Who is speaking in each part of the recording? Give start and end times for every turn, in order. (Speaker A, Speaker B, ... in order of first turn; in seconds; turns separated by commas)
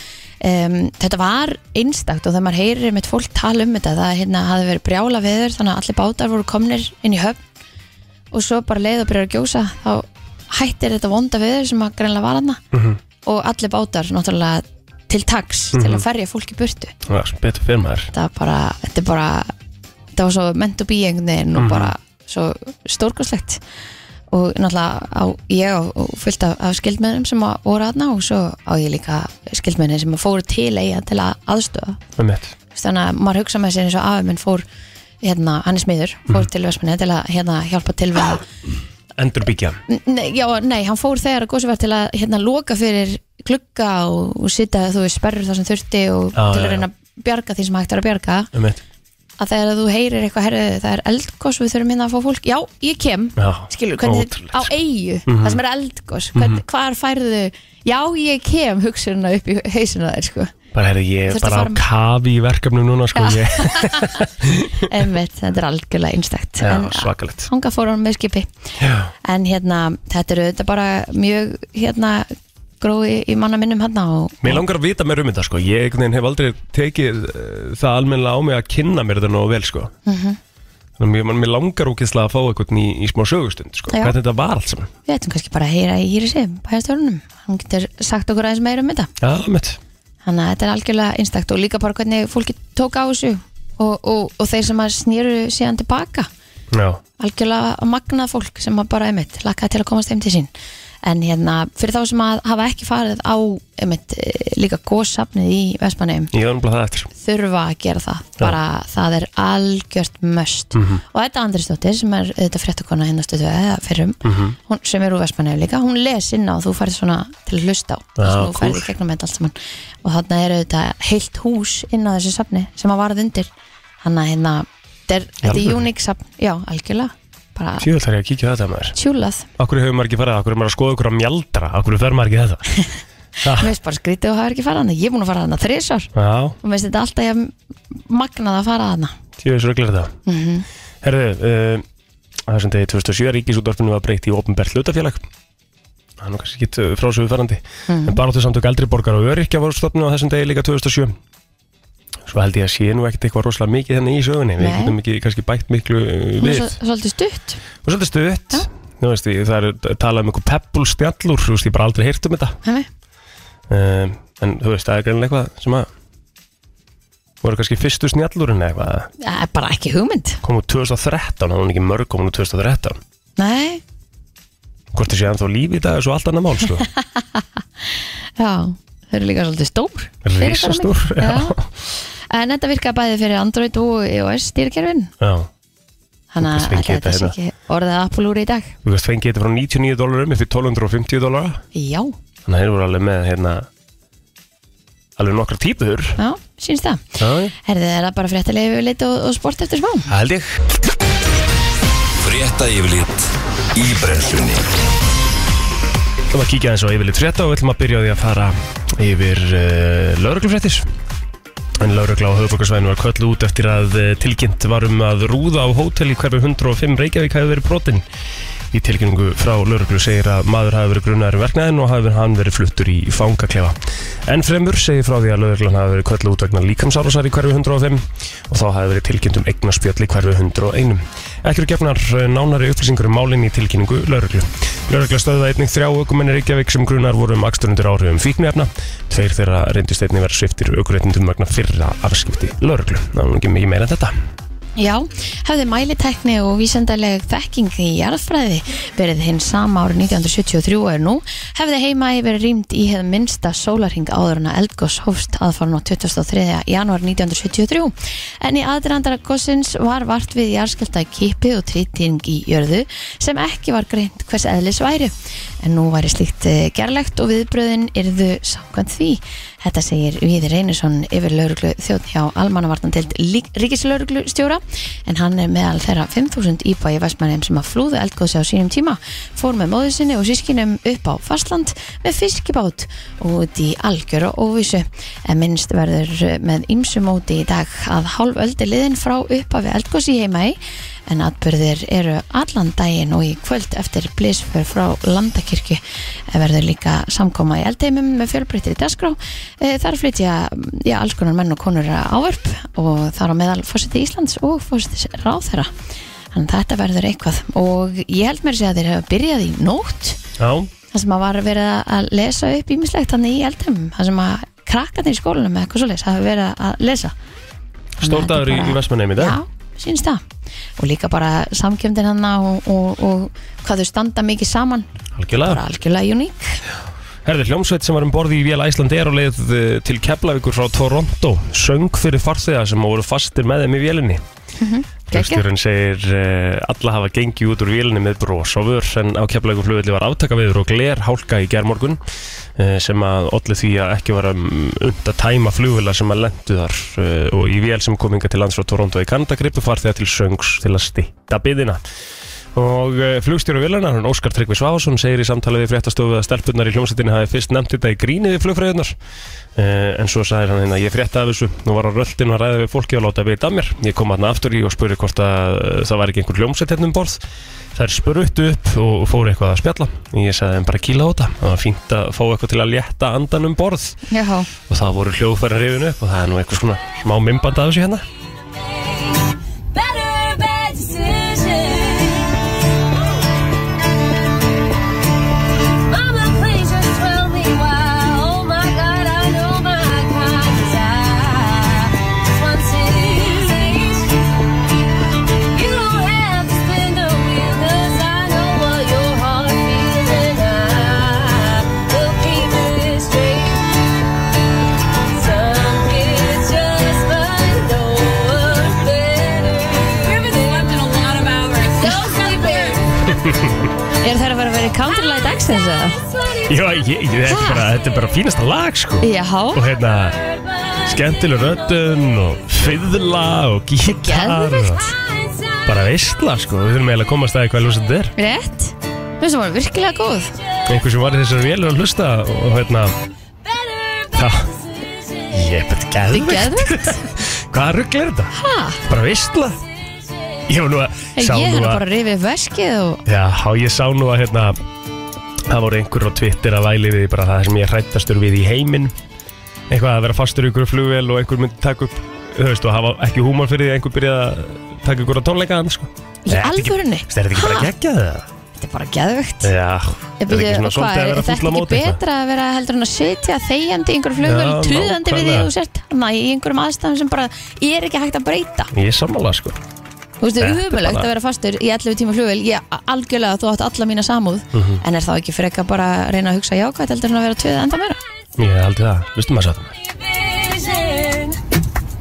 Speaker A: 0.4-7.4, Speaker A: 8.3-12.6, Speaker B: 12.7-13.0, Speaker A: 13.2-16.9, Speaker B: 15.7-16.0, Speaker B: 17.1-18.1, Speaker A: 18.1-19.5, Speaker A: 20.2-23.6, Speaker B: 21.6-21.9, Speaker A: 24.3-32.0, Speaker B: 32.2-32.5, Speaker A: 32.7-34.6, Speaker A: 35.2-38.4, Speaker B: 39.2-39.8, Speaker A: 39.9-48.5, Speaker B: 46.4-46.9, Speaker B: 48.5-48.8, Speaker A: 49.4-60.5, Speaker B: 53.4-54.7, Speaker B: 55.3-55.6, Speaker B: 56.4-56.6, Speaker B: 60.7-64.9, Speaker A: 61.3-61.8, Speaker A: 63.1-64.2, Speaker A: 64.8-68.5, Speaker B: 66.6-67.5, Speaker B: 68.8-69.1, Speaker A: 69.2-74.6, Speaker B: 74.4-79.9, Speaker A: 80.1-80.4, Speaker B: 81.0-84.9, Speaker A: 83.9-84.2, Speaker A: 85.1-89.1, Speaker B: 89.2-89.8, Speaker A: 90.2-96.3, Speaker B: 96.7-97.0, Speaker A: 97.2-100.5, Speaker A: 101.0-106.3, Speaker B: 106.3-107.1, Speaker A: 107.2-123.5, Speaker B: 110.7-111.0, Speaker B: 114.2-114.6, Speaker B: 118.2-118.9, Speaker A: 124.0-127.9, Speaker B: 125.4-125.8, Speaker B: 127.8-129.0, Speaker A: 128.9-129.5, Speaker B: 129.6-132.7, Speaker B: 133.4-133.7, Speaker A: 133.5-136.1, Speaker B: 136.2-136.6, Speaker A: 136.6-139.2, Speaker B: 139.4-140.2, Speaker A: 140.3-140.7, Speaker B: 141.0-141.8, Speaker B: 142.5-145.3, Speaker B: 146.2-151.2, Speaker A: 147.9-148.2, Speaker B: 152.3-156.8, Speaker A: 154.6-154.9, Speaker A: 156.4-157.6, Speaker B: 157.8-162.6, Speaker B: 163.7-165.9, Speaker B: 167.4-169.1, Speaker A: 169.2-170.4, Speaker B: 170.4-173.0, Speaker A: 173.4-173.8, Speaker B: 174.9-176.9, Speaker A: 177.2-177.4, Speaker A: 178.4-181.6, Speaker B: 180.2-181.7, Speaker A: 182.3-185.1, Speaker B: 185.2-185.5, Speaker A: 186.3-188.8, Speaker B: 186.4-187.3, Speaker B: 188.8-191.6, Speaker A: 191.7-192.1, Speaker B: 192.5-193.7, Speaker B: 195.2-196.2, Speaker A: 196.2-197.1, Speaker B: 197.2-197.5, Speaker A: 197.6-200.1, Speaker B: 200.1-200.6, Speaker C: 202.2-204.7, Speaker B: 206.3-210.9, Speaker B: 211.8-218.0, Speaker B: 218.7-244.1, Speaker A: 244.8-305.7, Speaker A: 306.3-310.2, Speaker B: 310.4-310.7, Speaker A: 310.9-317.1, Speaker B: 318.0-319.4, Speaker A: 318.0-320.2, Speaker A: 320.8-324.9, Speaker B: 325.2-325.6, Speaker A: 325.4-326.6, Speaker B: 327.2-334.2, Speaker A: 334.6-335.4, Speaker B: 335.1-342.0, Speaker B: 342.6-351.8, Speaker B: 352.6-359.0, Speaker B: 359.6-367.2, Speaker B: 367.8-374.0, Speaker A: 374.1-374.5, Speaker B: 374.7-378.0, Speaker D: 378.8-379.2, Speaker D: 379.7-382.5, Speaker D: 385.9-394.2, Speaker D: 395.5-403.6, Speaker D: 405.1-412.9, Speaker B: 413.1-413.7, Speaker A: 414.0-416.0, Speaker B: 416.5-420.2, Speaker A: 417.3-417.7, Speaker A: 419.0-419.6, Speaker B: 420.8-424.8, Speaker A: 424.0-424.9, Speaker B: 425.7-428.1, Speaker A: 428.2-430.3, Speaker B: 430.7-432.9, Speaker B: 434.1-434.5, Speaker B: 435.3-438.3, Speaker A: 436.1-437.1, Speaker A: 438.3-438.8, Speaker B: 438.9-439.6, Speaker B: 440.5-441.8, Speaker A: 441.2-443.0, Speaker B: 443.1-444.6, Speaker B: 445.5-448.9, Speaker B: 449.7-458.3, Speaker A: 456.3-457.7, Speaker A: 458.6-459.5, Speaker B: 459.4-462.0, Speaker A: 460.2-468.7, Speaker B: 464.2-465.5, Speaker B: 468.7-469.6, Speaker A: 470.2-478.0, Speaker B: 470.4-471.1, Speaker B: 474.5-474.8, Speaker B: 478.4-479.8, Speaker D: 480.1-481.4